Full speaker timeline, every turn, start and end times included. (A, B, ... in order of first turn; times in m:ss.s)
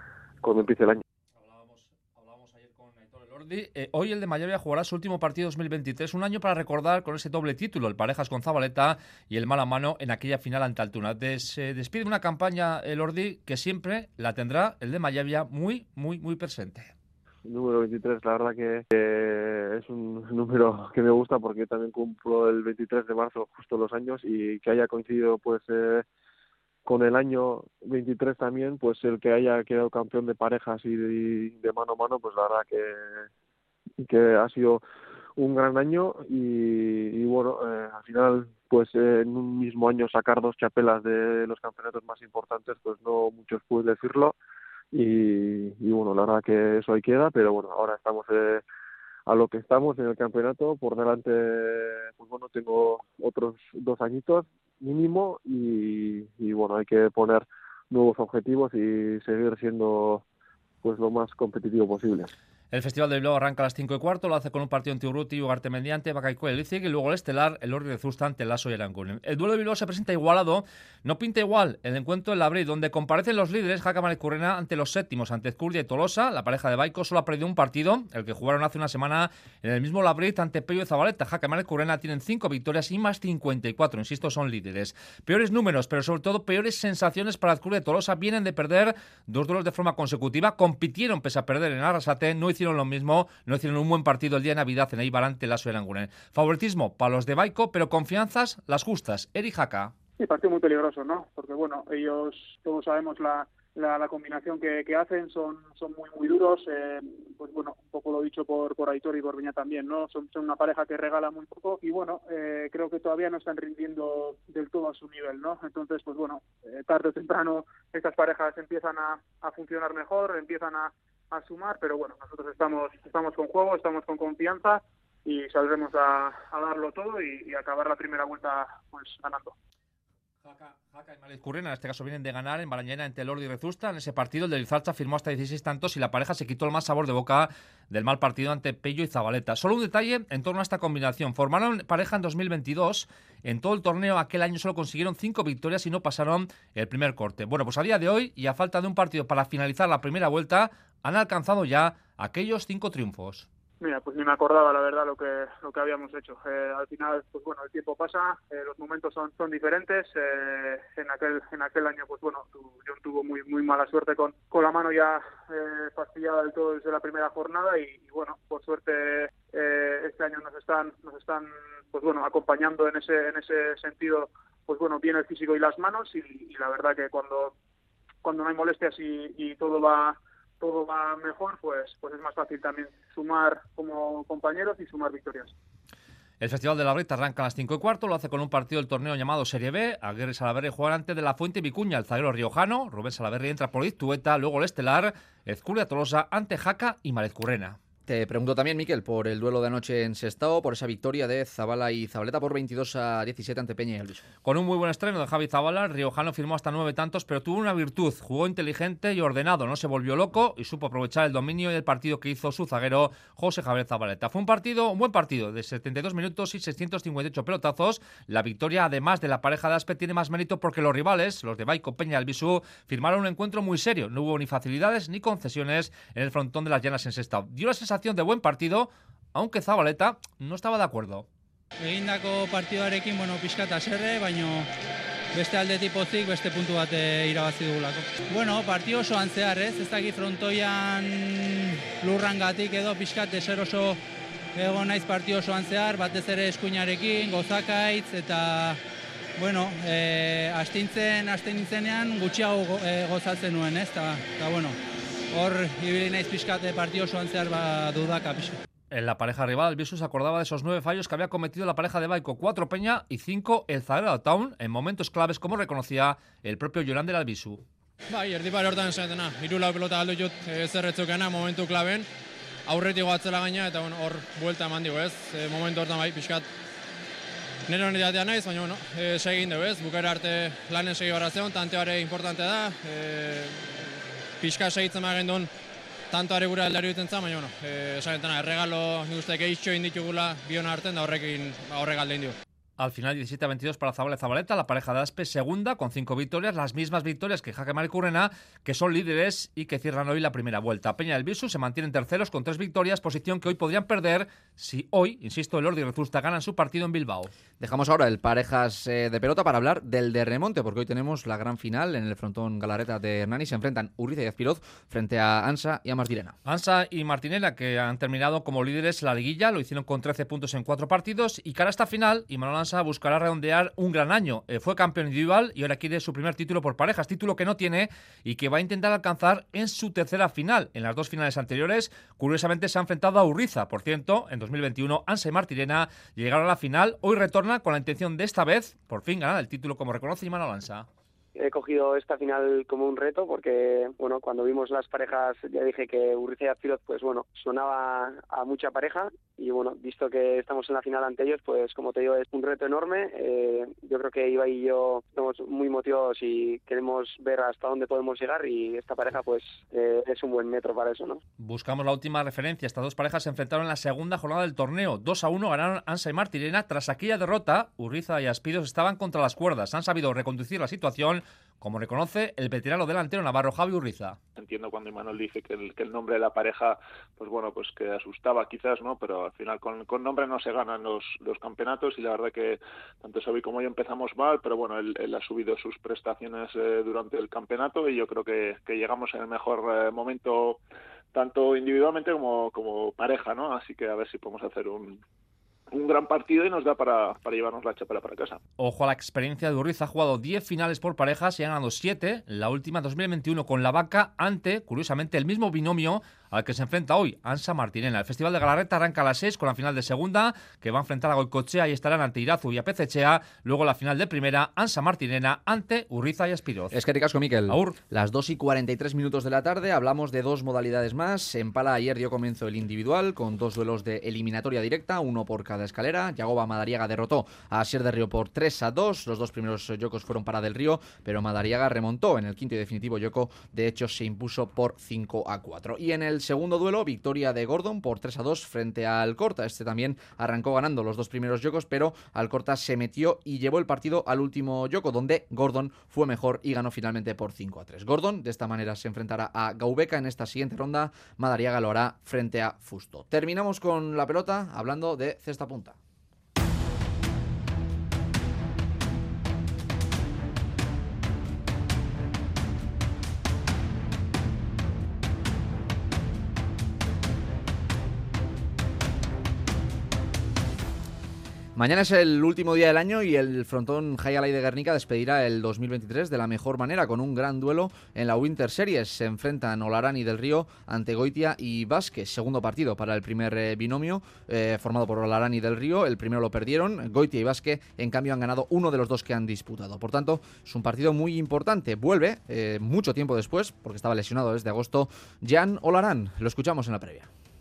0:00.4-0:01.0 A
0:01.4-0:16.9 B
0:17.4-0:26.0 A
0:26.8-0:33.3 A
0:34.0-0:34.8 A
0:35.4-0:44.4 A
0:44.9-0:48.6 A
0:49.3-1:00.2 A
1:00.8-1:02.3 A
1:02.7-1:39.9 B
1:40.2-2:09.6 C
2:10.4-2:33.5 B
2:33.8-2:57.6 C
2:58.2-3:05.5 C
3:06.4-3:17.8 B
3:18.1-3:24.3 D
3:24.4-3:51.3 B
3:51.8-3:54.7 E
3:55.3-4:04.0 E
4:04.6-4:08.8 E
4:09.4-4:14.8 E
4:15.3-4:18.6 E
4:18.9-4:27.6 B
4:28.1-4:32.1 F
4:32.7-4:36.5 F
4:37.7-4:43.8 F
4:44.4-4:45.5 F
4:46.1-4:52.4 F
4:52.8-5:07.3 B
5:07.6-5:16.4 D
5:16.4-5:40.9 B
5:41.4-6:01.2 G
6:01.4-6:14.2 B
6:14.4-6:30.6 H
6:31.1-6:35.0 H
6:35.7-6:38.4 H
6:38.6-6:56.8 B
6:56.7-7:35.8 D
6:57.5-6:57.8 B
7:51.6-8:17.1 D